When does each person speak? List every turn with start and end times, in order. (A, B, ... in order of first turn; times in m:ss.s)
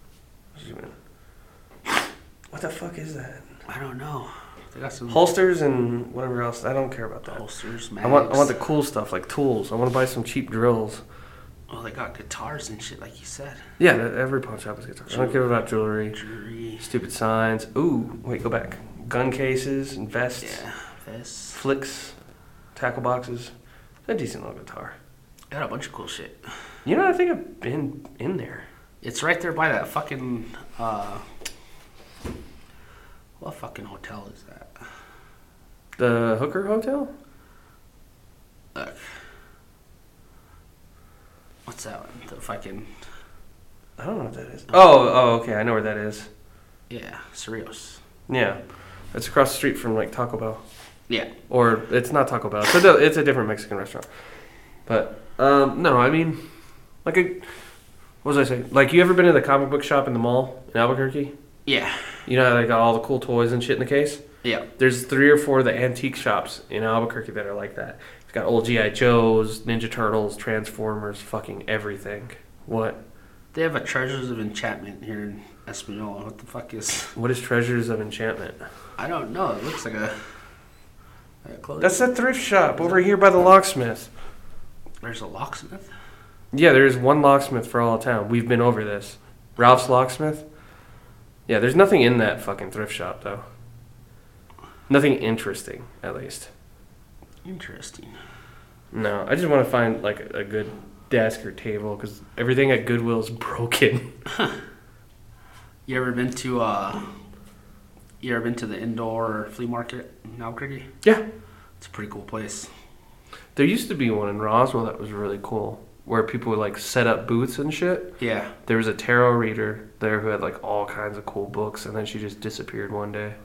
0:00.6-0:00.9 A
0:02.5-0:03.5 A
0:03.7-0:05.3 B
0:05.1-0:07.4 A
0:07.3-0:08.5 B
0:08.0-0:11.0 A
0:11.7-0:13.7 B
0:13.8-0:16.2 A
0:15.1-0:15.4 B
0:16.1-0:16.9 B
0:16.8-0:20.6 A
0:20.4-0:21.6 B
0:21.5-0:22.2 A
0:22.8-0:23.5 A
0:24.1-0:25.0 A
0:25.5-0:26.4 B
0:26.8-0:28.6 A
0:29.0-0:31.2 B
0:33.4-0:34.7 B
0:36.0-0:37.1 A
0:38.8-0:39.1 B
0:41.7-0:42.9 B
0:44.0-0:46.3 A
0:46.9-0:48.0 B
0:48.3-0:48.6 A
0:49.1-0:50.6 A
0:51.5-0:54.1 A
0:54.9-0:56.4 A
0:57.0-0:57.5 A
0:58.2-1:01.3 A
1:01.7-1:02.2 B
1:02.3-1:04.2 A
1:04.8-1:13.0 A
1:13.5-1:17.1 B
1:17.2-1:18.6 A
1:19.0-1:20.2 B
1:21.4-1:22.1 B
1:21.8-1:24.1 A
1:25.0-1:25.9 B
1:26.5-1:30.4 A
1:31.5-1:33.4 A
1:34.9-1:36.5 A
1:37.4-1:38.2 B
1:38.9-1:44.1 A
1:45.9-1:47.1 B
1:48.2-1:50.9 B
1:51.8-1:52.7 B
1:53.6-2:03.4 A
1:58.2-1:58.5 B